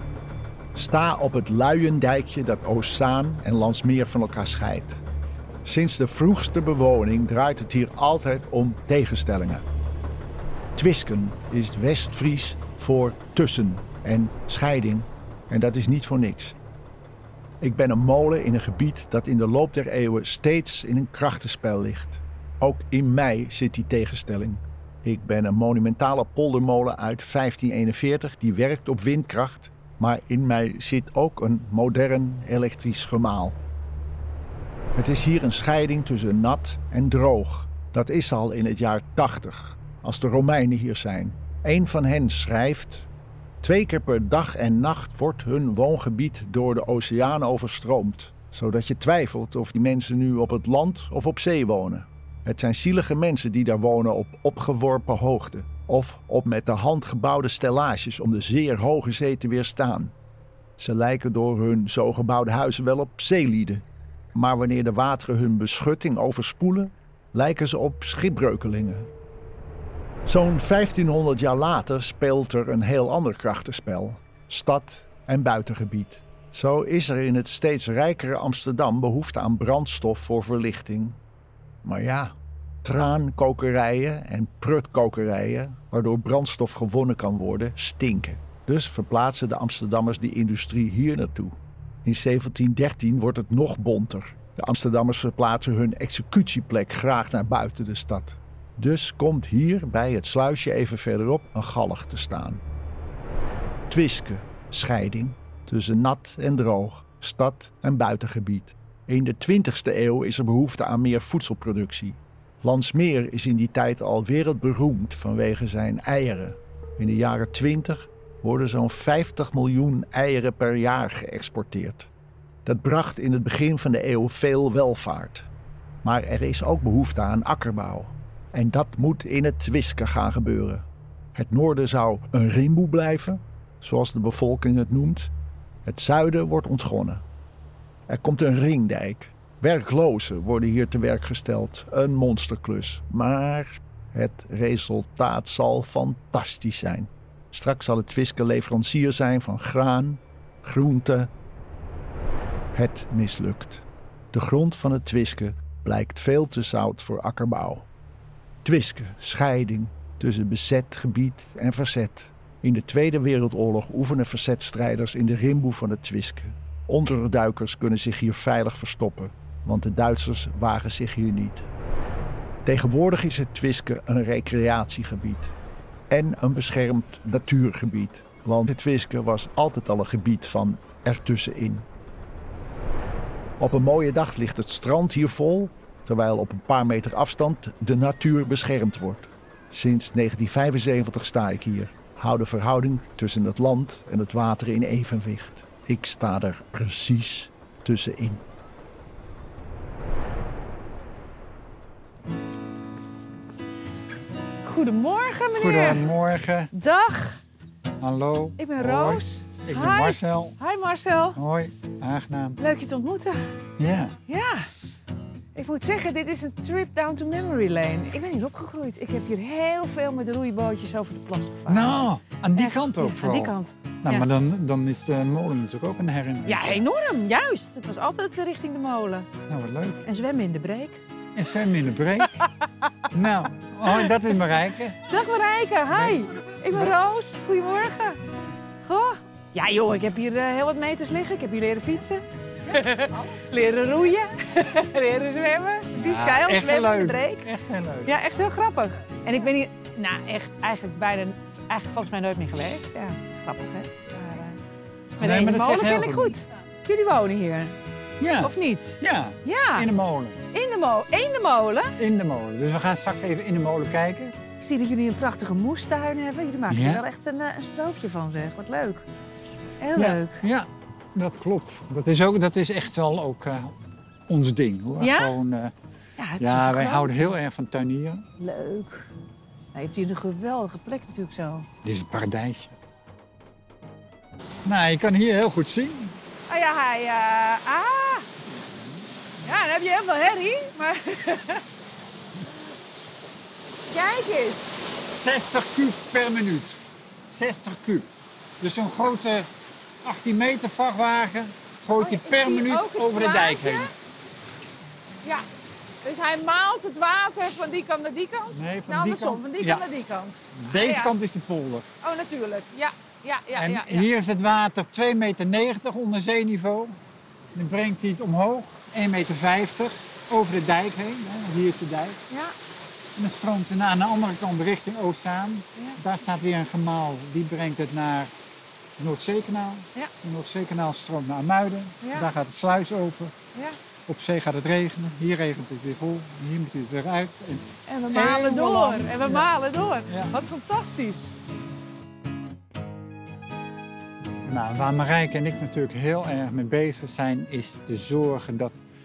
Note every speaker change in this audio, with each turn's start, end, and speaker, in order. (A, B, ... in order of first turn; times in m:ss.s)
0:00.8-0:05.0 A
0:05.6-0:09.6 A
0:10.8-0:16.6 A
0:17.6-0:33.6 A
0:35.0-0:43.1 A
0:43.6-1:00.1 A
1:00.8-1:03.8 A
1:04.3-1:09.1 A
1:10.2-1:21.2 A
1:21.8-1:42.6 A
1:43.9-2:02.1 A
2:02.6-2:05.5 A
2:06.0-2:15.3 A
2:15.8-2:17.2 A
2:18.1-2:31.3 A
2:32.7-2:37.9 A
2:38.6-2:51.7 A
2:52.6-2:55.5 A
2:56.1-3:01.9 A
3:03.6-3:18.4 A
3:24.6-3:26.0 B
3:25.5-3:26.7 C
3:26.7-3:27.4 B
3:28.0-3:30.6 C
3:28.6-3:31.4 B
3:31.4-3:32.6 C
3:32.6-3:33.4 B
3:33.8-3:34.2 C
3:34.3-3:34.7 B
3:35.6-3:44.2 B
3:41.7-3:46.8 C
3:46.5-3:49.3 B
3:49.5-3:50.0 C
3:50.1-3:51.0 B
3:51.4-3:52.3 C
3:52.4-3:52.9 B
3:53.1-3:55.1 C
3:55.1-3:58.2 B
3:55.9-3:57.0 C
3:58.8-4:07.4 B
4:05.9-4:08.2 C
4:08.1-4:14.6 B
4:15.2-4:16.4 C
4:15.2-4:17.8 B
4:18.2-4:20.4 C
4:18.4-4:19.9 B
4:20.5-4:21.9 B
4:22.0-4:24.4 C
4:24.6-4:29.0 B
4:26.7-4:27.0 C
4:29.8-4:30.4 B
4:30.0-4:33.8 C
4:34.3-4:35.7 C
4:35.0-4:35.3 B
4:36.2-4:37.4 B
4:36.4-4:38.2 C
4:38.4-4:39.1 B
4:39.7-4:41.7 B
4:41.8-4:42.8 C
4:44.6-4:46.1 C
4:46.5-4:48.3 B
4:49.4-4:51.6 B
4:53.9-4:54.8 B
4:55.1-4:58.1 C
4:58.6-4:59.5 C
5:00.0-5:03.9 C
5:02.0-5:03.9 B
5:06.0-5:11.1 B
5:08.5-5:09.8 C
5:10.5-5:11.9 C
5:12.0-5:14.1 B
5:13.5-5:16.9 C
5:17.5-5:22.2 C
5:23.2-5:28.3 C
5:29.0-5:33.4 C
5:34.1-5:39.5 C
5:37.9-5:41.3 B
5:40.1-5:40.3 C
5:44.4-5:48.7 C